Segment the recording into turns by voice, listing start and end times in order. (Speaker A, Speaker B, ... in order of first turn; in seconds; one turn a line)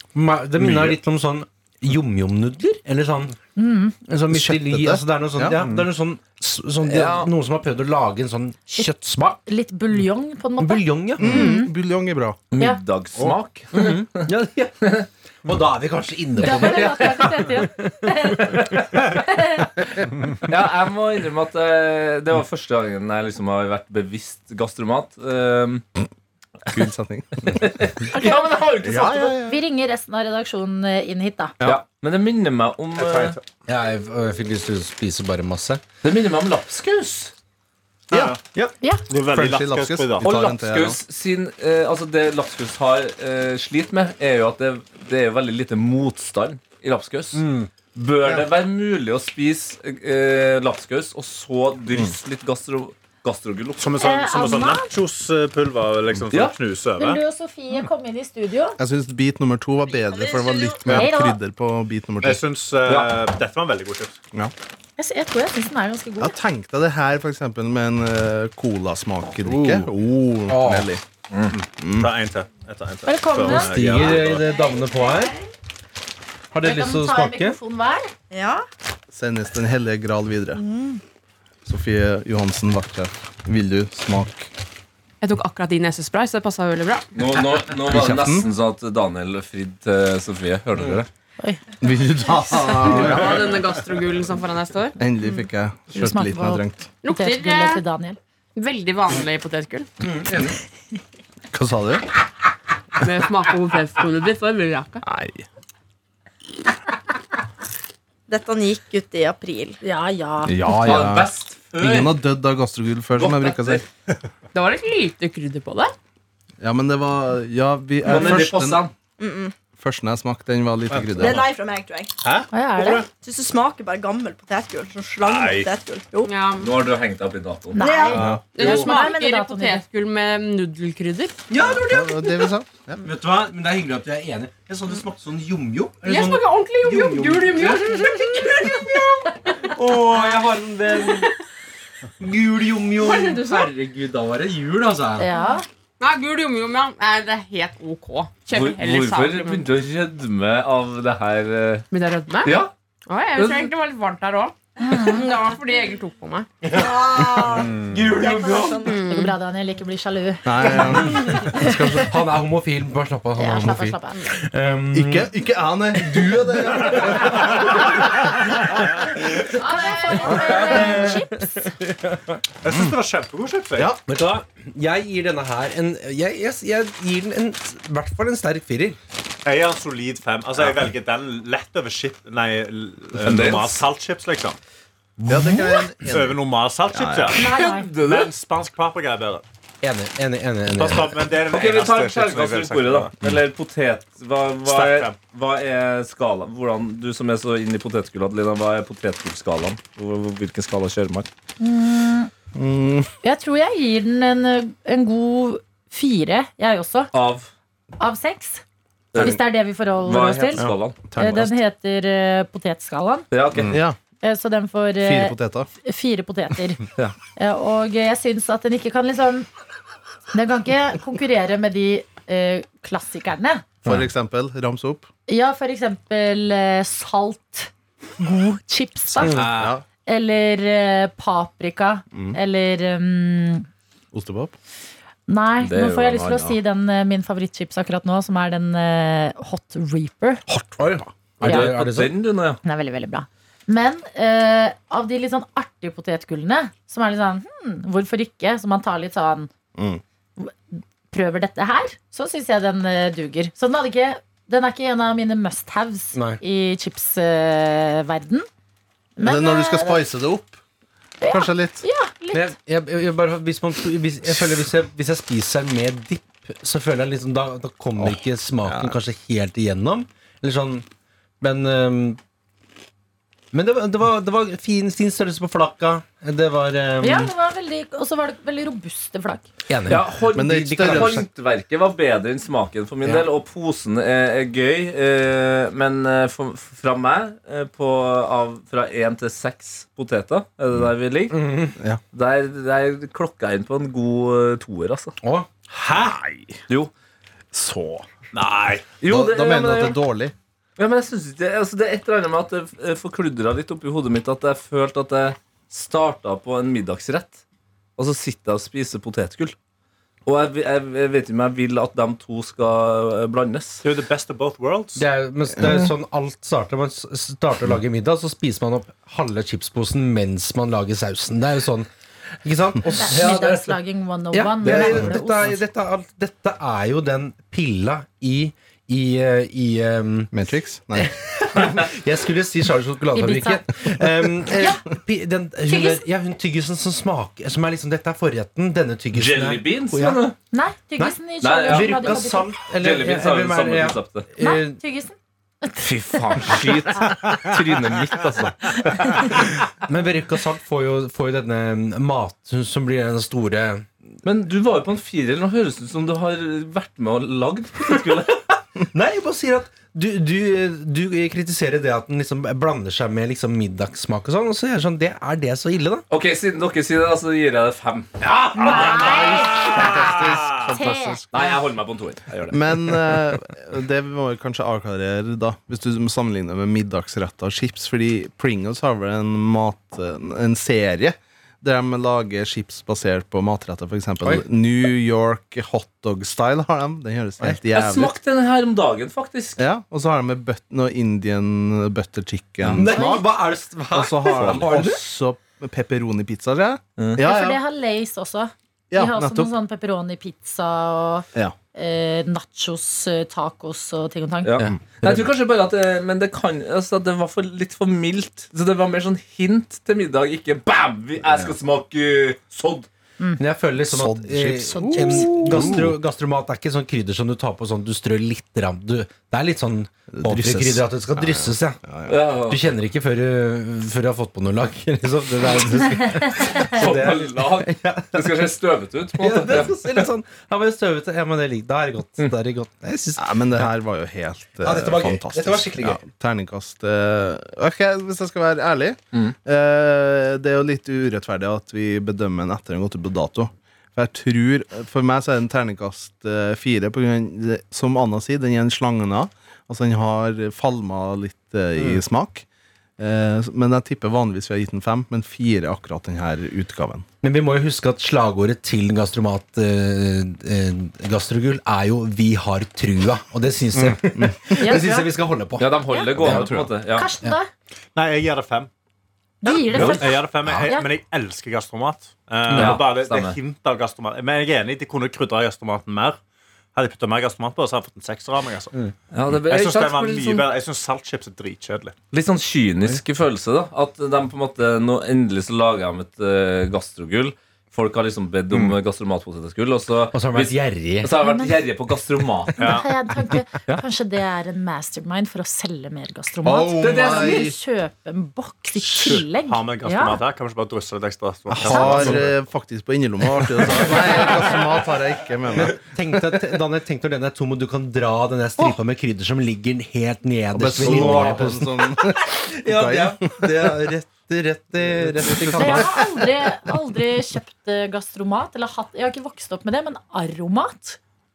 Speaker A: 0.1-3.4
Speaker B: 0.6-1.0
Speaker C: 3.6-4.0
Speaker A: 4.1-9.4
Speaker D: 4.3-5.6
Speaker B: 5.6-5.9
Speaker E: 6.8-7.3
Speaker C: 9.5-11.7
Speaker A: 10.6-11.5
Speaker D: 11.2-12.4
Speaker E: 12.5-14.3
Speaker A: 13.8-18.7
Speaker E: 14.8-15.1
Speaker C: 16.4-19.7
Speaker E: 18.5-18.8
Speaker E: 20.5-25.9
Speaker D: 26.7-28.1
Speaker E: 27.5-29.4
Speaker C: 28.1-28.6
Speaker D: 28.8-29.6
Speaker C: 29.3-31.6
Speaker E: 31.6-33.4
Speaker B: 33.0-33.4
Speaker A: 33.7-35.8
Speaker E: 36.0-37.3
Speaker B: 38.1-38.4
Speaker B: 39.1-40.4
Speaker D: 39.3-41.0
Speaker E: 40.2-47.4
Speaker A: 47.4-47.7
Speaker E: 47.9-53.9
Speaker B: 53.8-57.2
Speaker C: 54.0-54.9
Speaker C: 57.0-58.8
Speaker D: 58.8-62.4
Speaker C: 60.9-61.4
Speaker B: 62.2-64.2
Speaker E: 62.9-63.1
Speaker C: 65.0-66.3
Speaker D: 66.2-71.0
Speaker B: 69.5-69.8
Speaker A: 70.5-70.9
Speaker B: 71.5-74.5
Speaker D: 71.8-72.1
Speaker C: 73.1-73.8
Speaker A: 73.5-75.4
Speaker F: 74.4-75.3
Speaker A: 76.5-77.6
Speaker C: 76.6-78.1
Speaker F: 78.3-78.7
Speaker D: 79.1-80.6
Speaker F: 80.5-81.0
Speaker D: 81.7-84.5
Speaker G: 85.2-87.1
Speaker E: 87.2-91.1
Speaker D: 87.9-88.5
Speaker D: 91.8-93.6
Speaker G: 92.8-95.0
Speaker D: 95.0-96.9
Speaker C: 95.9-98.2
Speaker G: 97.0-97.8
Speaker G: 98.6-99.9
Speaker A: 100.0-100.5
Speaker D: 101.5-102.1
Speaker G: 103.0-105.0
Speaker D: 105.0-105.5
Speaker F: 108.3-109.8
Speaker C: 109.8-110.6
Speaker D: 110.5-113.8
Speaker E: 110.7-112.2
Speaker E: 113.2-113.8
Speaker G: 114.5-115.9
Speaker D: 116.6-118.9
Speaker E: 118.0-118.9
Speaker F: 119.2-119.5
Speaker D: 119.8-121.4
Speaker B: 120.9-121.4
Speaker F: 121.2-122.1
Speaker B: 122.2-123.1
Speaker C: 122.5-123.1
Speaker F: 122.8-126.3
Speaker B: 125.2-125.7
Speaker G: 126.3-126.7
Speaker E: 126.6-127.8
Speaker C: 127.7-129.8
Speaker F: 127.8-128.8
Speaker D: 128.2-128.5
Speaker G: 128.5-131.4
Speaker A: 131.5-132.5
Speaker D: 131.7-133.0
Speaker A: 133.0-141.3
Speaker G: 136.0-139.0
Speaker A: 142.2-145.3
Speaker G: 143.0-143.7
Speaker C: 145.2-145.7
Speaker G: 146.0-149.7
Speaker E: 148.5-151.9
Speaker G: 151.9-156.5
Speaker E: 152.4-152.7
Speaker E: 153.4-153.7
Speaker C: 154.8-155.2
Speaker A: 156.6-158.9
Speaker F: 156.8-159.0
Speaker B: 157.6-158.1
Speaker G: 158.8-159.3
Speaker C: 158.9-161.8
Speaker D: 160.4-162.2
Speaker A: 161.1-165.3
Speaker C: 163.4-164.2
Speaker D: 164.9-168.1
Speaker A: 166.0-167.2
Speaker C: 169.5-171.7
Speaker A: 170.4-171.2
Speaker A: 171.8-172.2
Speaker B: 172.6-173.9
Speaker A: 174.1-179.0
Speaker B: 179.4-184.6
Speaker E: 183.2-183.8
Speaker D: 185.3-187.4
Speaker B: 186.0-189.4
Speaker C: 187.3-187.9
Speaker E: 187.6-188.3
Speaker A: 189.8-191.2
Speaker B: 190.7-193.1
Speaker E: 191.5-201.3
Speaker B: 194.7-195.2
Speaker C: 201.6-202.3
Speaker D: 202.5-203.1
Speaker C: 203.2-207.1
Speaker E: 207.1-207.5
Speaker C: 208.0-208.6
Speaker E: 209.1-209.4
Speaker C: 209.2-213.3
Speaker E: 210.0-211.0
Speaker D: 211.1-211.5
Speaker E: 213.3-213.8
Speaker D: 213.7-214.0
Speaker C: 214.2-216.8
Speaker D: 215.0-215.7
Speaker C: 217.4-219.5
Speaker C: 220.3-223.7
Speaker D: 223.8-225.1
Speaker C: 225.3-229.4
Speaker A: 229.2-229.5
Speaker D: 229.2-229.8
Speaker B: 229.3-229.7
Speaker C: 230.1-233.7
Speaker D: 232.1-232.4
Speaker D: 234.1-234.5
Speaker C: 235.3-240.4
Speaker E: 235.6-236.6
Speaker A: 240.6-242.1
Speaker E: 241.4-242.6
Speaker C: 241.4-241.7
Speaker C: 242.6-249.5
Speaker D: 249.8-250.0
Speaker C: 250.4-258.5
Speaker A: 256.1-256.4
Speaker C: 259.2-260.0
Speaker D: 259.2-260.6
Speaker C: 261.2-262.5
Speaker D: 261.2-261.8
Speaker A: 262.3-270.9
Speaker D: 268.0-269.0
Speaker A: 271.4-272.2
Speaker A: 273.5-277.3
Speaker C: 277.0-279.5
Speaker A: 279.7-281.2
Speaker E: 279.9-291.4
Speaker D: 280.3-281.3
Speaker A: 291.3-291.8
Speaker E: 292.1-295.1
Speaker A: 295.2-295.5
Speaker B: 295.7-296.3
Speaker D: 295.9-296.5
Speaker D: 297.5-298.1
Speaker B: 298.3-298.9
Speaker E: 299.0-300.0
Speaker D: 299.1-300.3
Speaker E: 300.8-307.4
Speaker E: 308.0-309.6
Speaker E: 310.3-313.8
Speaker B: 313.8-315.0
Speaker A: 315.0-321.9
Speaker A: 322.4-323.6
Speaker C: 322.9-325.6
Speaker E: 323.1-323.6
Speaker A: 324.3-330.3
Speaker D: 324.7-325.1
Speaker D: 330.3-331.8
Speaker A: 330.9-340.2
Speaker C: 333.1-333.6
Speaker C: 335.7-336.1
Speaker E: 339.1-340.4
Speaker C: 340.5-342.5
Speaker A: 341.0-344.8
Speaker E: 341.4-342.2
Speaker E: 342.7-344.3
Speaker C: 344.4-346.8
Speaker E: 345.8-349.3
Speaker A: 349.9-353.9
Speaker E: 354.2-358.4
Speaker A: 358.9-366.1
Speaker E: 366.1-368.8
Speaker C: 368.6-370.1
Speaker B: 368.6-370.7
Speaker D: 368.6-371.3
Speaker C: 370.6-371.2
Speaker E: 371.3-372.9
Speaker D: 372.5-388.1
Speaker E: 387.7-389.6
Speaker D: 389.6-393.2
Speaker A: 392.6-395.0
Speaker C: 392.9-393.2
Speaker D: 393.9-397.6
Speaker B: 394.4-394.7
Speaker C: 397.2-404.6
Speaker D: 398.9-399.5
Speaker E: 404.4-412.9
Speaker D: 411.3-411.5
Speaker A: 413.4-421.8
Speaker D: 413.8-416.0
Speaker C: 414.8-415.7
Speaker D: 420.1-422.2
Speaker E: 422.1-422.6
Speaker A: 422.5-428.5
Speaker E: 426.4-430.1
Speaker A: 429.2-433.7
Speaker D: 433.2-452.4
Speaker A: 434.6-436.0
Speaker A: 451.8-452.0
Speaker D: 453.0-457.1
Speaker A: 457.2-466.7
Speaker D: 464.1-464.9
Speaker C: 464.6-465.1
Speaker E: 465.6-467.1
Speaker C: 466.9-467.5
Speaker B: 467.9-468.7
Speaker C: 469.4-470.9
Speaker B: 469.7-476.2
Speaker E: 469.7-470.0
Speaker A: 472.5-472.8
Speaker E: 472.5-473.4
Speaker B: 476.8-478.7
Speaker E: 479.1-480.5
Speaker B: 479.5-482.0
Speaker E: 482.1-492.8
Speaker A: 490.1-491.1
Speaker C: 491.2-491.6
Speaker B: 492.6-492.9
Speaker C: 492.6-500.2
Speaker D: 496.4-497.6
Speaker E: 496.8-497.5
Speaker B: 499.0-502.3
Speaker D: 501.5-505.8
Speaker C: 501.7-502.1
Speaker A: 501.7-502.1
Speaker A: 503.8-504.3
Speaker A: 505.5-516.1
Speaker D: 510.5-513.9
Speaker B: 510.8-511.4
Speaker D: 514.8-516.0
Speaker C: 515.6-521.0